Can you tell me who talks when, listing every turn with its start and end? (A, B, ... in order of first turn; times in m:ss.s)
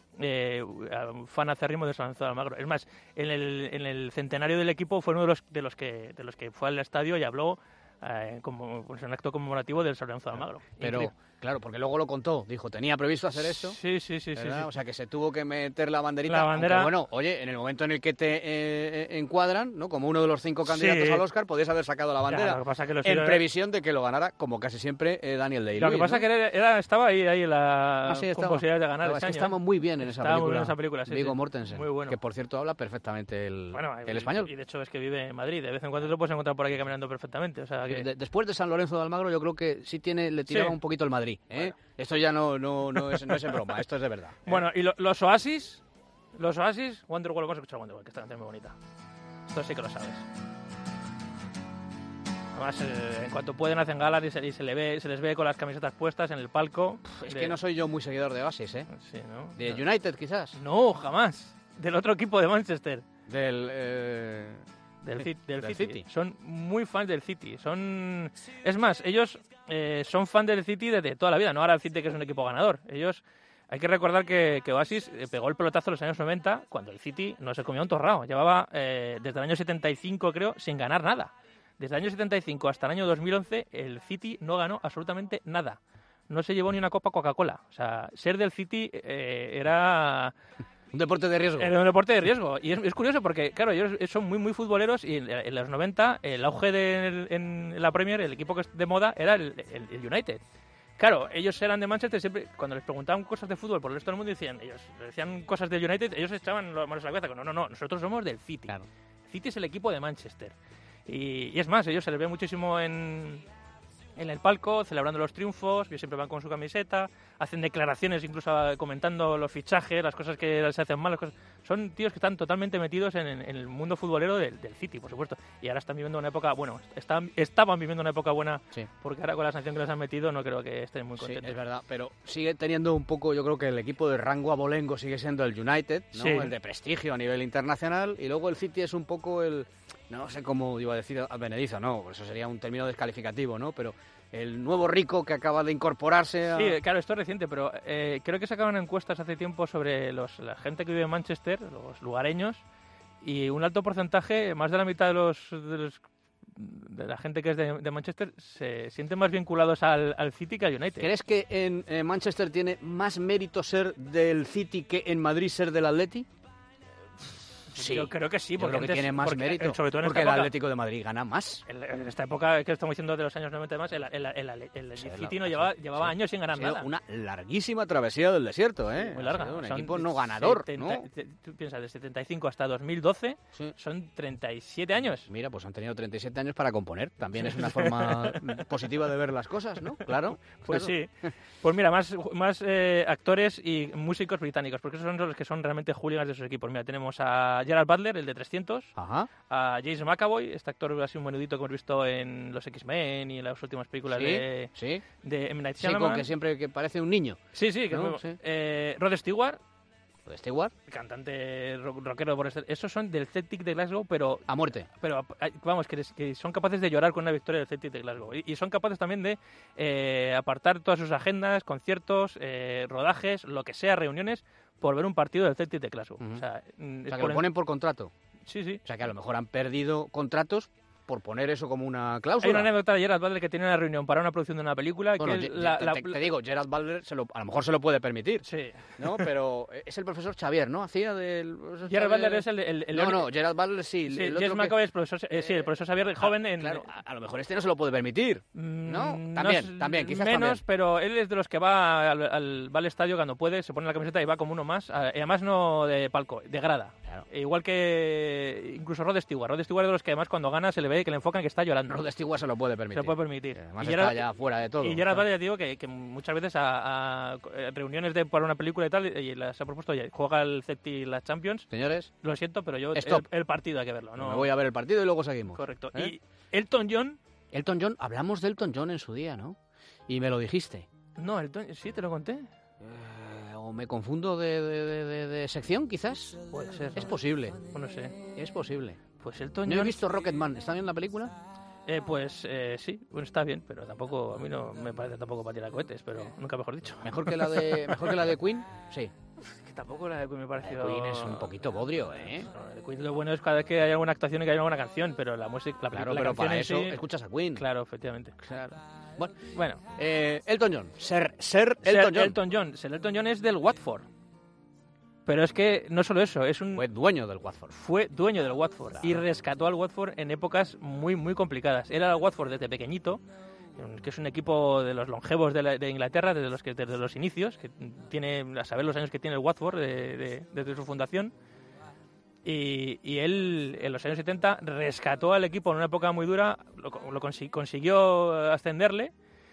0:00.2-0:11.1 A
0:10.4-0:13.8 B
0:13.4-0:14.7 A
0:14.3-0:26.2 B
0:16.3-0:16.9 A
0:20.6-0:21.2 A
0:22.3-0:23.4 A
0:25.8-0:32.2 A
0:28.1-0:34.5 B
0:33.7-0:38.1 A
0:37.8-0:44.6 B
0:40.5-0:40.8 A
0:43.1-0:43.6 A
0:44.5-0:45.8 A
0:46.3-0:48.8 A
0:49.5-0:50.3 A
0:52.5-0:57.6 A
0:57.1-0:58.9 B
0:58.9-0:59.8 A
0:59.6-1:00.6 B
1:00.6-1:03.0 A
1:03.3-1:04.6 B
1:05.0-1:30.3 A
1:05.6-1:06.1 B
1:30.9-1:31.8 B
1:31.6-1:40.4 A
1:41.0-1:48.8 A
1:49.3-1:50.6 A
1:51.1-1:53.4 A
1:54.2-2:11.6 A
2:11.2-2:26.8 B
2:16.2-2:16.5 A
2:26.5-2:32.6 A
2:33.2-2:41.1 A
2:41.0-2:46.3 B
2:47.7-2:51.6 B
2:47.8-2:50.5 A
2:51.7-2:56.9 A
2:55.0-3:01.1 B
2:58.9-3:05.3 A
3:05.3-3:11.3 B
3:07.4-3:08.7 A
3:10.1-3:18.9 A
3:19.0-3:19.3 B
3:19.5-3:24.7 A
3:24.1-3:25.0 B
3:25.2-3:26.3 A
3:25.8-3:27.4 B
3:27.5-3:29.6 A
3:27.9-3:28.4 B
3:30.3-3:30.7 B
3:30.9-3:47.5 A
3:34.5-3:34.9 B
3:47.1-3:48.1 B
3:48.5-3:48.8 A
3:48.8-3:52.7 B
3:52.4-3:56.3 A
3:55.2-3:58.4 B
3:58.4-3:59.3 A
3:59.0-4:04.8 B
4:01.9-4:03.3 A
4:04.1-4:06.9 A
4:06.2-4:10.6 B
4:08.5-4:22.0 A
4:21.9-4:25.2 B
4:22.9-4:24.3 A
4:24.8-4:31.7 A
4:31.7-4:32.1 B
4:32.2-4:34.5 A
4:32.9-4:33.3 B
4:34.2-4:36.1 B
4:35.6-4:37.2 A
4:37.5-4:39.6 B
4:40.1-4:40.9 B
4:41.2-4:42.5 A
4:42.8-4:46.4 B
4:46.5-4:47.1 A
4:46.9-4:47.6 B
4:47.7-4:48.2 A
4:48.2-4:49.0 B
4:49.2-4:50.0 A
4:49.7-4:51.4 B
4:51.9-4:58.2 A
4:57.0-4:59.1 B
4:59.4-5:01.5 A
5:00.6-5:02.5 B
5:02.2-5:07.0 A
5:05.9-5:07.6 B
5:07.6-5:08.4 A
5:08.4-5:12.4 B
5:09.5-5:09.8 A
5:11.8-5:14.1 A
5:15.3-5:16.8 A
5:16.7-5:17.8 B
5:17.7-5:23.2 A
5:19.0-5:19.2 B
5:23.8-5:31.3 A
5:32.4-5:39.1 A